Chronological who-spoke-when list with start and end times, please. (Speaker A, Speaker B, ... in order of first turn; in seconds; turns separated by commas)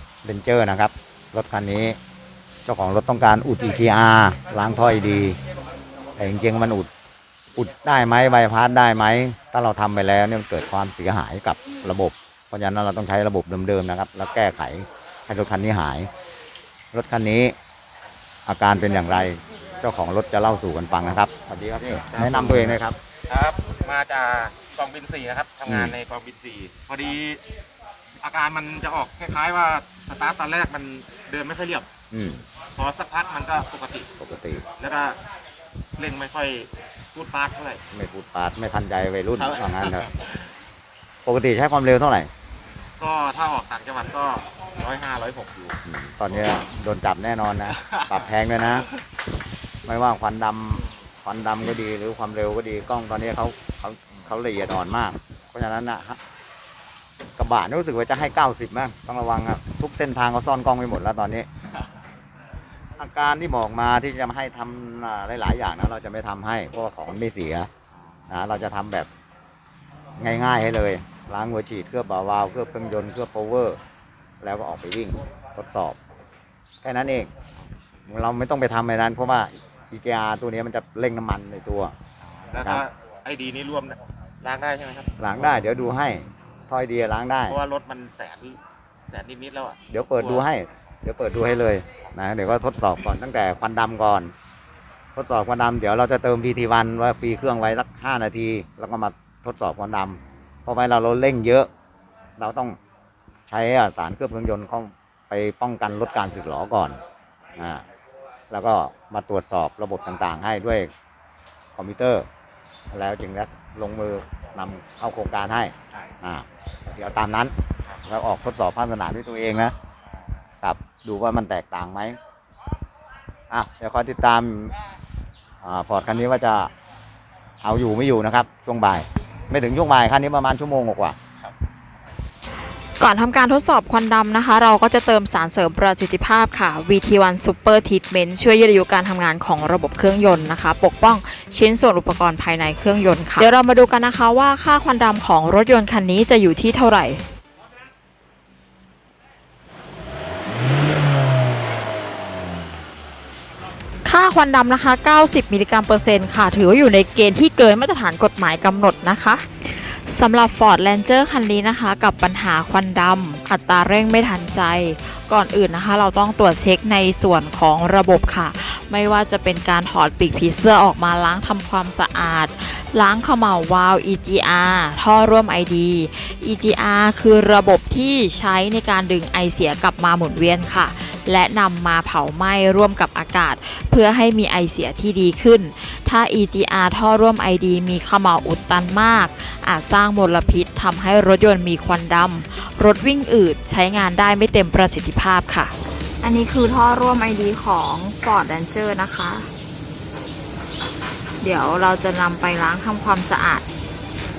Speaker A: 0.2-2.0, Speaker A: 2.7-5.4, Speaker A: 6.2-6.9, Speaker A: 7.5-16.1, Speaker A: 16.9-17.6, Speaker A: 18.5-23.0, Speaker B: 22.1-27.4, Speaker A: 25.7-25.9, Speaker B: 28.2-31.9, Speaker A: 32.1-32.5, Speaker B: 32.7-35.2, Speaker A: 34.2-34.6, Speaker B: 36.0-37.8, Speaker A: 37.9-40.1, Speaker B: 39.3-40.1, Speaker A: 41.2-42.3, Speaker B: 43.0-45.8, Speaker A: 45.9-48.9, Speaker B: 47.7-48.3, Speaker A: 49.9-56.2, Speaker A: 57.4-61.5, Speaker A: 63.0-67.7, Speaker A: 68.3-69.1, Speaker A: 70.2-73.8, Speaker A: 74.4-76.0, Speaker A: 76.8-77.3, Speaker A: 78.1-82.0, Speaker B: 82.2-85.7, Speaker A: 82.6-82.8, Speaker A: 85.2-87.6, Speaker B: 87.5-90.5, Speaker A: 89.9-94.3, Speaker A: 95.2-101.7, Speaker A: 102.4-102.8, Speaker A: 103.5-107.0, Speaker A: 107.6-107.8, Speaker A: 108.5-110.9, Speaker A: 111.8-112.3, Speaker A: 112.9-119.8, Speaker B: 120.0-120.5, Speaker A: 120.6-122.2, Speaker A: 123.5-124.8, Speaker A: 125.6-126.7, Speaker A: 127.6-131.2, Speaker C: 133.0-147.2, Speaker C: 154.0-199.5, Speaker C: 201.4-203.7